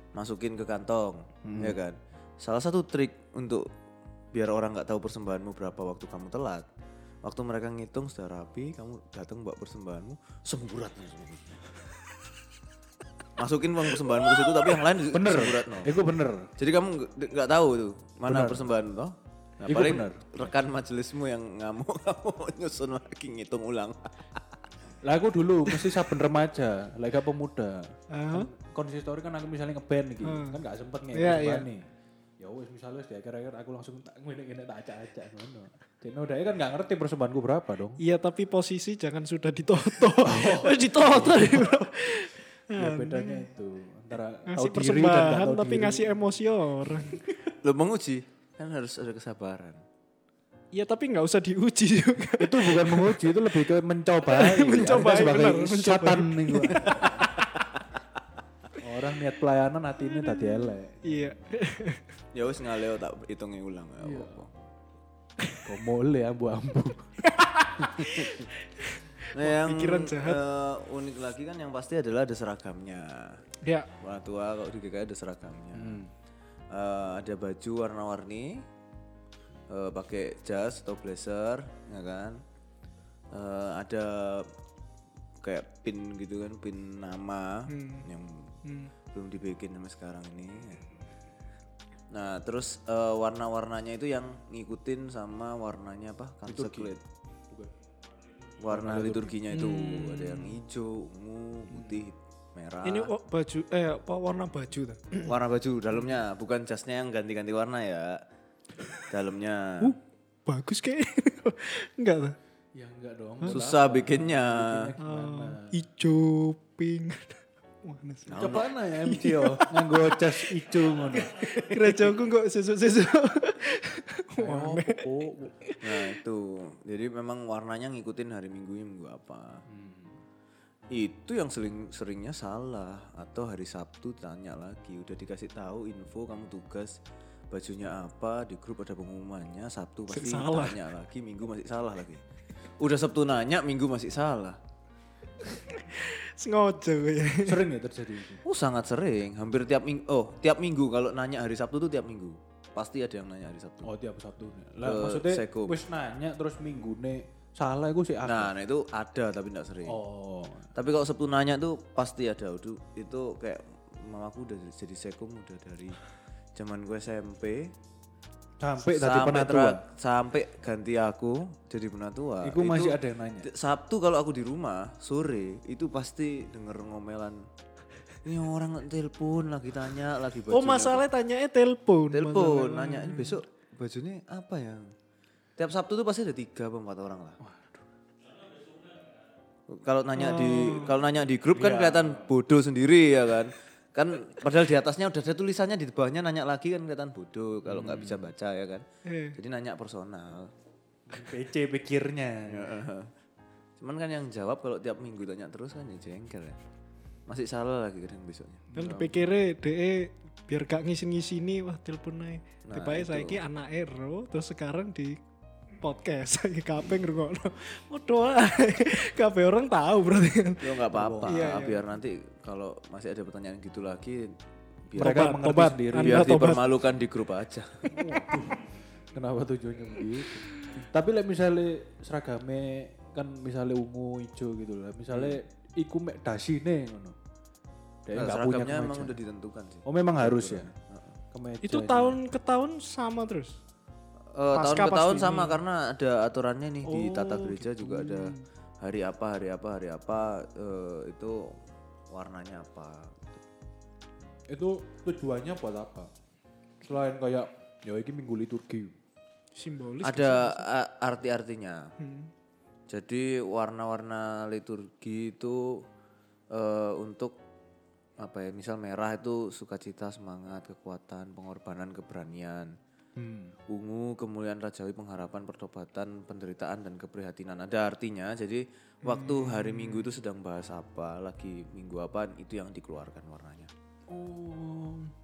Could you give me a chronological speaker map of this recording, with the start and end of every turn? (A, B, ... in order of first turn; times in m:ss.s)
0:00.1-0:03.7 A
0:01.4-0:01.8 B
0:04.3-0:06.6 A
0:07.2-0:11.6 A
0:13.4-0:15.9 A
0:15.1-0:16.5 B
0:16.6-0:24.4 A
0:18.2-0:18.7 B
0:19.7-0:20.2 B
0:25.0-0:31.8 B
0:28.1-0:28.5 C
0:30.2-0:30.6 C
0:31.1-0:31.7 C
0:32.4-0:38.0 B
0:38.0-0:43.5 C
0:40.1-0:42.2 B
0:42.8-0:46.1 B
0:44.5-0:47.2 C
0:47.5-0:49.8 A
0:50.7-0:53.4 C
0:52.4-0:57.4 B
0:54.2-0:57.4 C
0:57.0-0:57.2 A
0:58.8-1:01.3 B
1:00.0-1:02.0 C
1:02.3-1:04.5 A
1:04.0-1:04.4 B
1:05.6-1:08.0 B
1:07.2-1:10.4 C
1:08.0-1:08.4 A
1:09.3-1:13.4 A
1:13.6-1:13.9 C
1:14.0-1:16.0 A
1:15.7-1:16.1 B
1:16.7-1:18.6 A
1:19.7-1:22.4 A
1:23.3-1:24.5 A
1:25.4-1:28.5 A
1:27.7-1:28.1 C
1:28.6-1:28.9 C
1:29.1-1:30.8 A
1:32.1-1:37.0 A
1:36.4-1:37.7 B
1:38.6-1:43.1 A
1:38.7-1:39.4 B
1:39.5-1:40.6 C
1:42.8-1:45.4 C
1:45.2-1:48.2 A
1:49.1-1:49.9 A
1:49.8-1:52.4 C
1:52.7-1:55.7 B
1:53.5-1:54.9 A
1:55.0-2:05.1 C
1:58.2-1:58.6 A
1:58.4-2:02.1 B
2:04.4-2:05.5 B
2:05.6-2:06.1 C
2:05.8-2:09.6 A
2:09.7-2:10.2 B
2:10.9-2:17.0 A
2:17.5-2:22.2 A
2:20.1-2:20.8 C
2:22.8-2:24.6 A
2:25.4-2:27.6 C
2:27.4-2:28.4 B
2:28.4-2:33.9 A
2:33.8-2:38.5 B
2:34.8-2:35.8 A
2:38.2-2:40.0 A
2:39.8-2:40.7 B
2:40.7-2:46.0 A
2:46.6-2:47.7 A
2:48.6-2:49.8 B
2:48.8-2:57.4 A
2:52.4-2:53.5 B
2:58.2-3:01.0 A
3:00.5-3:03.4 C
3:02.1-3:04.9 A
3:05.6-3:07.4 A
3:07.4-3:07.8 B
3:09.7-3:18.8 A
3:10.2-3:11.0 C
3:11.5-3:12.3 B
3:17.6-3:18.3 B
3:19.0-3:19.4 C
3:19.3-3:20.5 A
3:21.1-3:22.8 B
3:22.5-3:23.1 A
3:23.8-3:26.6 A
3:27.3-3:29.1 A
3:28.7-3:29.1 B
3:28.7-3:35.2 C
3:32.6-3:33.4 A
3:35.8-3:41.8 C
3:40.6-3:44.4 A
3:40.9-3:41.6 B
3:44.9-3:45.3 A
3:45.0-3:46.6 B
3:45.0-3:46.7 C
3:45.9-3:48.0 A
3:47.9-3:57.2 B
3:55.1-3:55.4 A
3:58.0-3:59.2 B
3:58.1-4:01.2 A
3:59.8-4:00.7 B
4:01.3-4:02.2 B
4:01.6-4:03.6 C
4:04.4-4:11.5 A
4:04.5-4:05.6 C
4:06.8-4:08.4 C
4:12.1-4:13.4 A
4:14.5-4:16.1 B
4:16.8-4:18.9 B
4:19.6-4:20.7 C
4:20.0-4:21.9 A
4:22.0-4:22.3 C
4:22.9-4:25.8 A
4:26.5-4:27.4 A
4:28.2-4:32.8 A
4:33.2-4:33.6 B
4:33.7-4:43.7 A
4:39.0-4:40.1 C
4:44.1-4:45.1 B